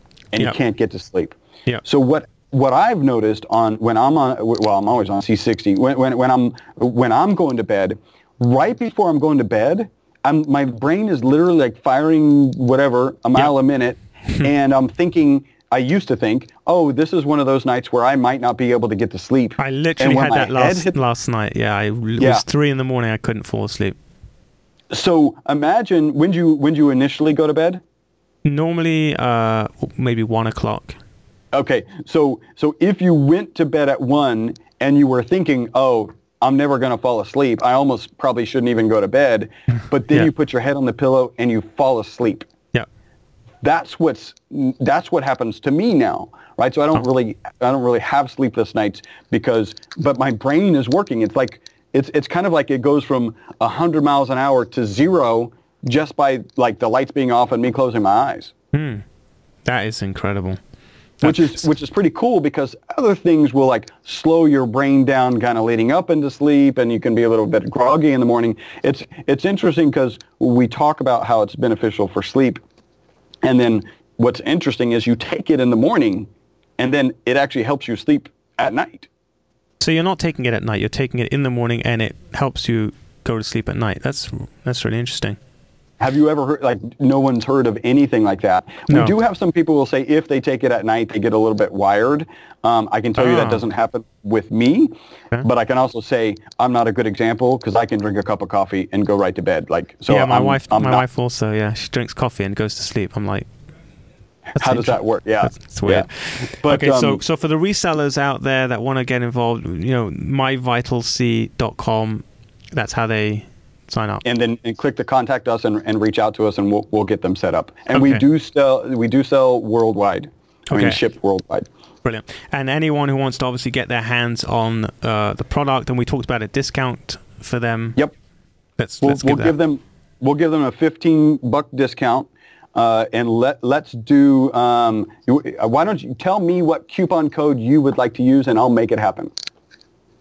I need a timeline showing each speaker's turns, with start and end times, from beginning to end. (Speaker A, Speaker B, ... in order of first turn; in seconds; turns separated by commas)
Speaker A: 0.3-20.9, Speaker B: 19.6-23.9, Speaker A: 22.2-22.4, Speaker A: 24.9-27.8, Speaker B: 28.4-31.0, Speaker A: 31.5-42.5, Speaker A: 43.6-58.5, Speaker B: 58.7-59.0, Speaker B: 59.6-60.6, Speaker B: 61.2-61.6, Speaker A: 61.2-72.6, Speaker A: 73.4-76.3, Speaker A: 76.8-79.1, Speaker B: 79.8-85.4, Speaker A: 86.0-101.0, Speaker B: 88.9-89.1, Speaker B: 93.2-93.6, Speaker B: 100.1-103.5, Speaker B: 104.6-114.2, Speaker A: 104.6-107.2, Speaker A: 114.2-121.7, Speaker B: 117.9-118.2, Speaker B: 120.7-121.0, Speaker B: 122.0-128.0, Speaker B: 128.8-129.5, Speaker A: 129.0-139.3